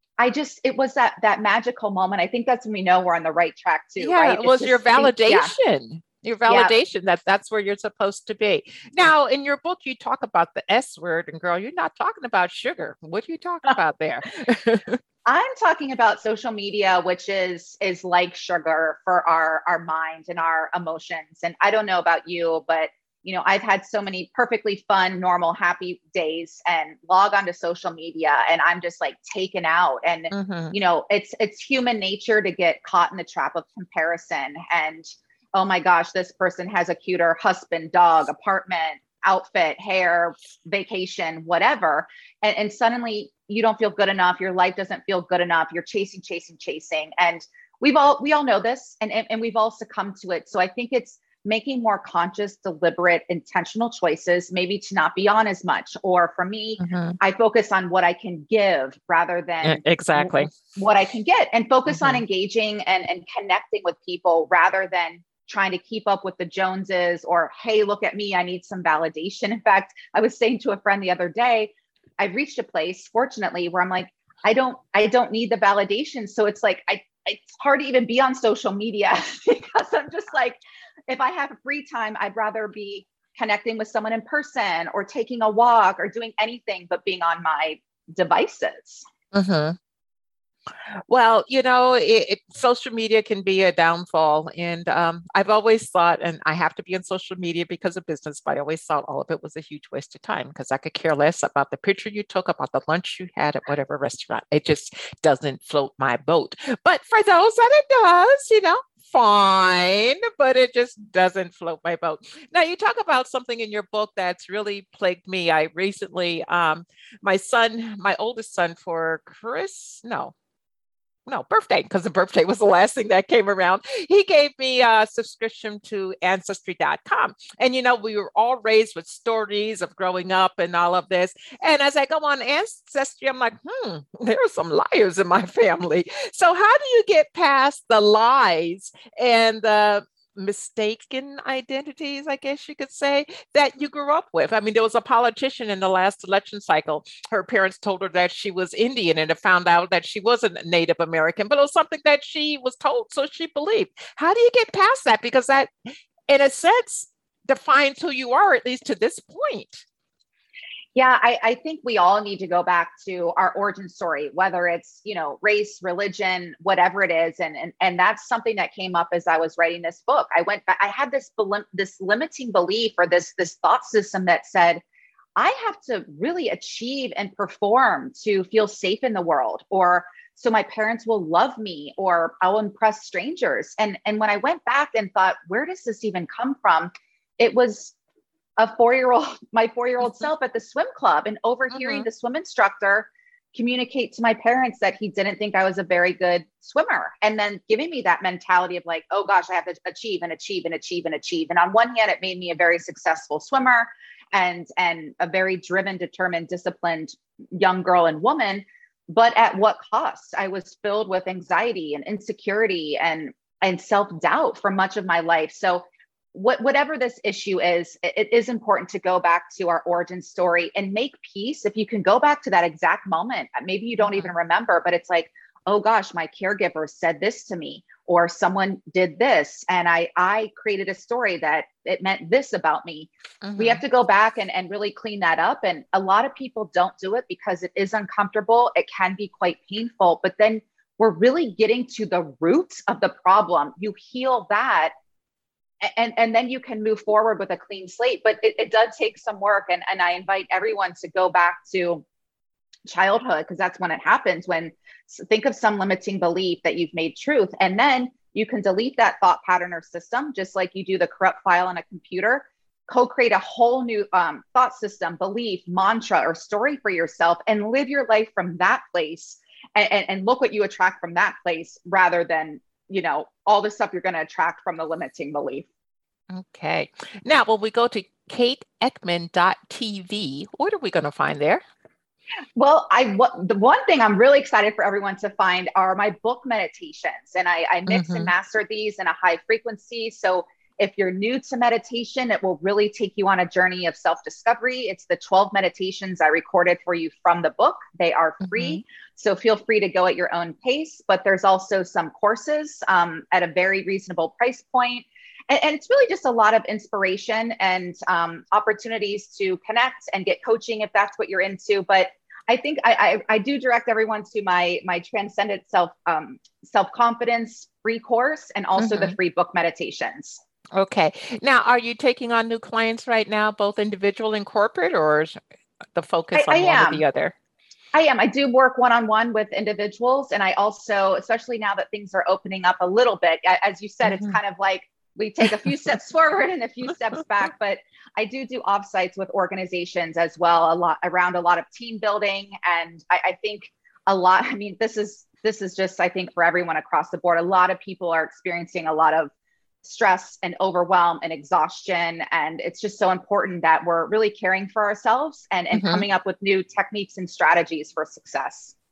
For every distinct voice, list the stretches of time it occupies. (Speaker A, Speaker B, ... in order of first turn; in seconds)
Speaker A: 0.2-5.5, 6.5-6.8, 15.3-89.0, 160.9-174.8, 175.4-187.9, 188.6-244.9, 245.8-252.0, 252.9-275.7, 282.6-320.4, 326.3-327.1, 327.9-349.3, 349.8-358.7
Speaker B: 4.0-15.0, 30.3-30.8, 56.8-57.2, 59.6-60.5, 61.9-62.2, 89.3-89.8, 91.1-120.3, 121.3-155.7, 156.3-159.8, 191.7-192.1, 224.0-224.3, 233.4-233.8, 276.3-281.6, 287.9-288.3, 298.5-298.8, 318.8-319.1, 320.7-325.4, 325.9-327.3, 334.0-334.4, 355.7-356.1